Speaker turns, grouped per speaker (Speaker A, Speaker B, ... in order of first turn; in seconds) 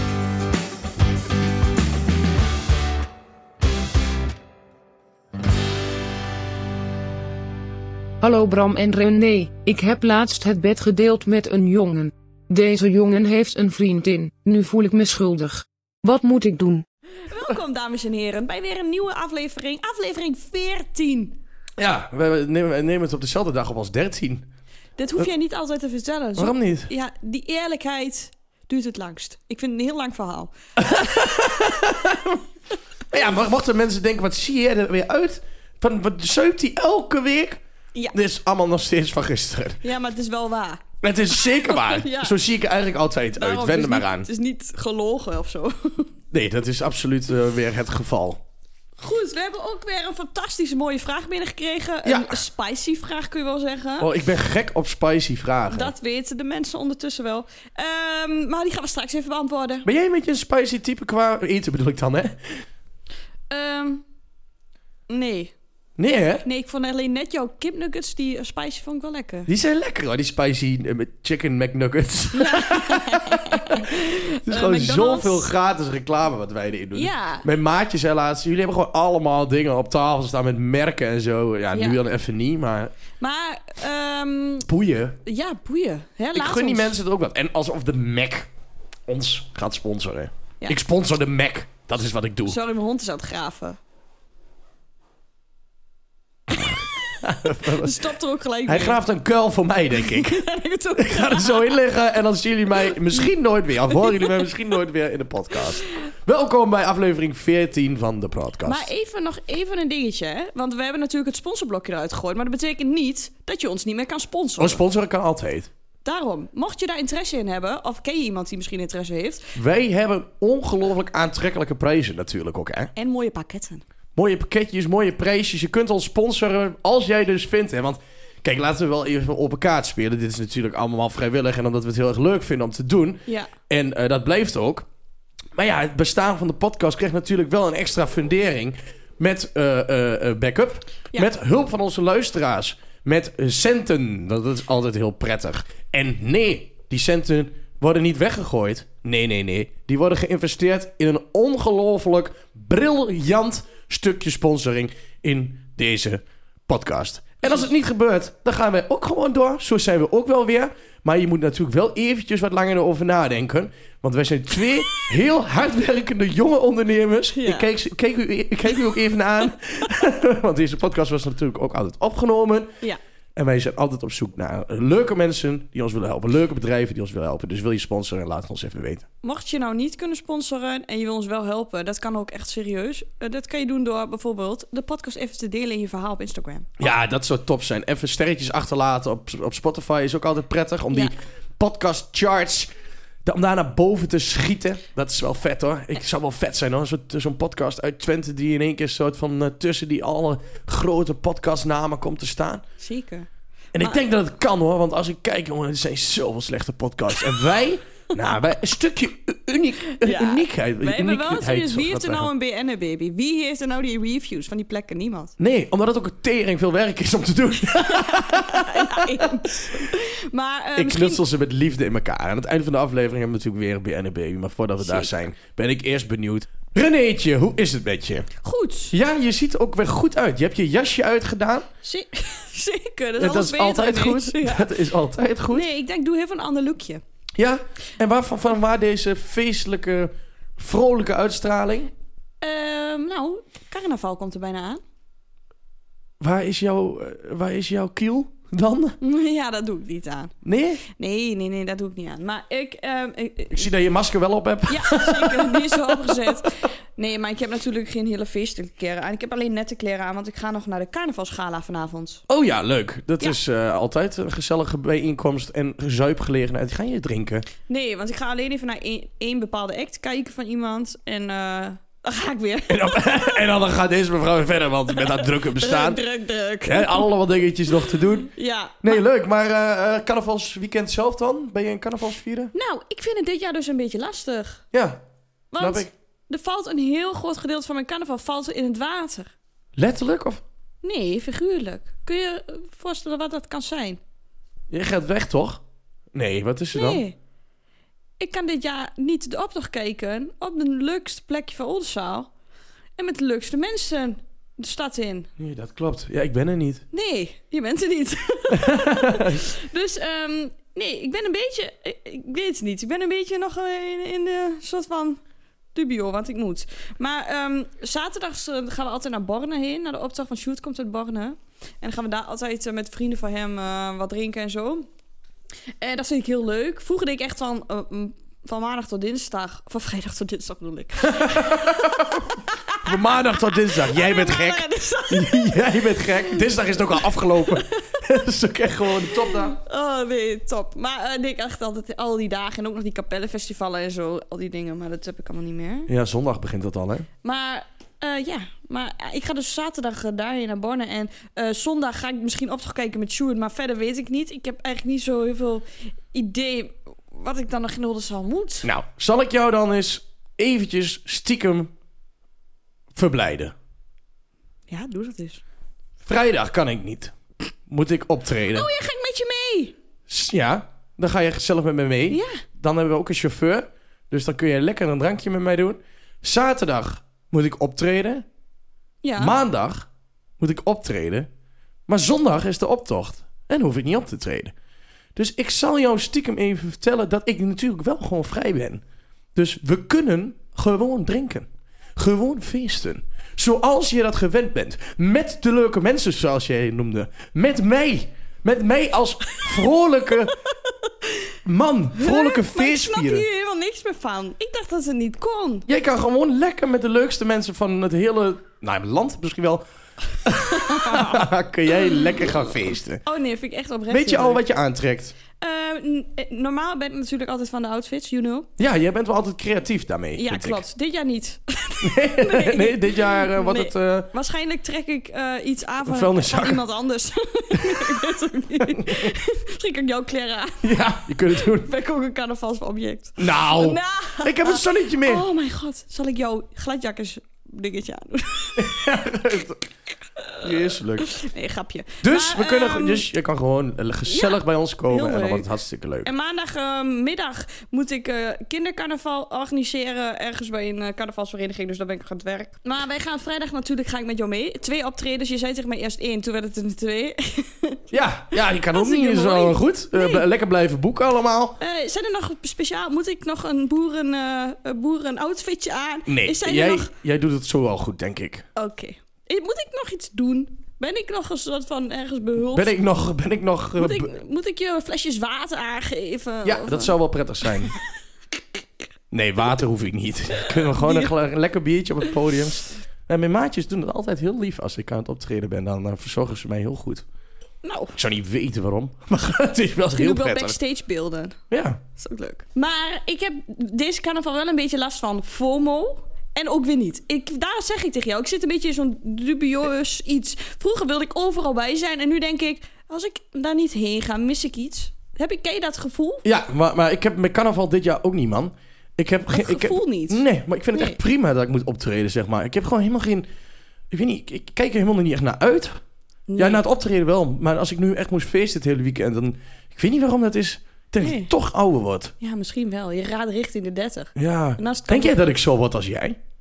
Speaker A: 8.2-16.9
Speaker B: 17.3-21.4, 25.0-31.7, 39.8-42.4, 43.4-46.1, 49.0-54.1, 55.7-59.9, 63.5-64.1, 65.1-65.5, 66.4-69.5, 72.3-75.5, 76.9-77.5, 81.7-82.0, 83.2-84.7, 85.2-87.0, 92.5-93.8, 97.6-99.0, 100.0-101.8, 108.6-114.8, 116.0-119.5, 123.0-123.8, 167.3-167.7, 179.2-186.9, 202.8-203.3, 210.0-215.3, 217.9-221.2, 224.8-225.1, 228.4-228.9, 231.8-234.7, 235.5-237.0, 242.4-244.8, 249.0-253.7, 254.7-262.2, 267.7-273.4, 275.0-277.1, 277.9-279.0, 282.5-284.6, 285.5-289.3, 290.8-294.0, 296.7-297.2, 298.2-302.3, 303.0-305.3, 306.9-315.2, 315.8-324.9, 325.8-336.4, 337.0-337.8, 339.0-345.9, 347.2-358.7, 364.7-365.4, 368.5-369.8, 372.1-372.4, 379.0-379.4, 402.0-405.7, 410.4-411.2, 411.8-412.3, 413.1-414.4, 415.4-418.5, 420.2-438.8, 440.2-443.1, 444.1-445.5, 446.0-457.8, 458.3-460.2, 461.6-466.9, 468.6-472.7, 473.8-476.9, 480.7-481.1, 487.6-488.0, 489.9-491.4, 491.9-506.3, 509.3-511.0, 516.3-516.6, 521.0-521.3, 522.2-525.3
Speaker C: 21.8-24.5, 26.4-26.9, 30.8-32.4, 33.1-37.6, 38.1-39.8, 41.0-44.3, 46.3-48.4, 52.0-52.4, 54.0-55.9, 59.9-62.6, 66.0-66.5, 69.5-82.9, 84.7-85.2, 86.3-88.5, 89.1-92.6, 96.6-98.1, 98.7-100.4, 101.0-108.9, 114.6-115.7, 119.5-122.9, 124.2-134.9, 135.6-172.7, 173.3-179.1, 186.8-192.7, 193.2-202.6, 203.7-212.3, 215.4-219.9, 220.8-228.3, 228.9-231.7, 233.2-235.7, 237.4-241.9, 246.2-249.0, 250.4-250.8, 253.5-256.4, 262.3-267.5, 272.7-276.0, 276.6-278.3, 278.8-282.5, 284.7-285.0, 285.6-285.9, 289.8-290.4, 294.7-295.6, 296.1-297.0, 305.4-306.9, 308.5-309.4, 331.1-332.3, 332.8-339.6, 345.9-347.1, 358.6-361.7, 362.9-363.5, 366.1-367.1, 367.7-368.7, 370.1-378.2, 379.2-379.9, 380.4-381.3, 381.9-384.5, 385.1-388.8, 389.4-400.4, 401.4-403.3, 405.7-409.6, 410.2-413.0, 413.9-415.1, 418.6-420.6, 421.8-424.1, 425.9-426.6, 427.6-427.9, 428.7-429.1, 430.6-431.7, 433.2-435.3, 438.6-439.6, 440.4-441.1, 442.0-446.1, 457.9-461.6, 466.1-468.5, 472.5-474.1, 476.4-477.7, 479.1-487.1, 487.9-490.6, 491.5-491.8, 506.2-513.3, 513.9-515.8, 516.4-522.1, 524.2-526.2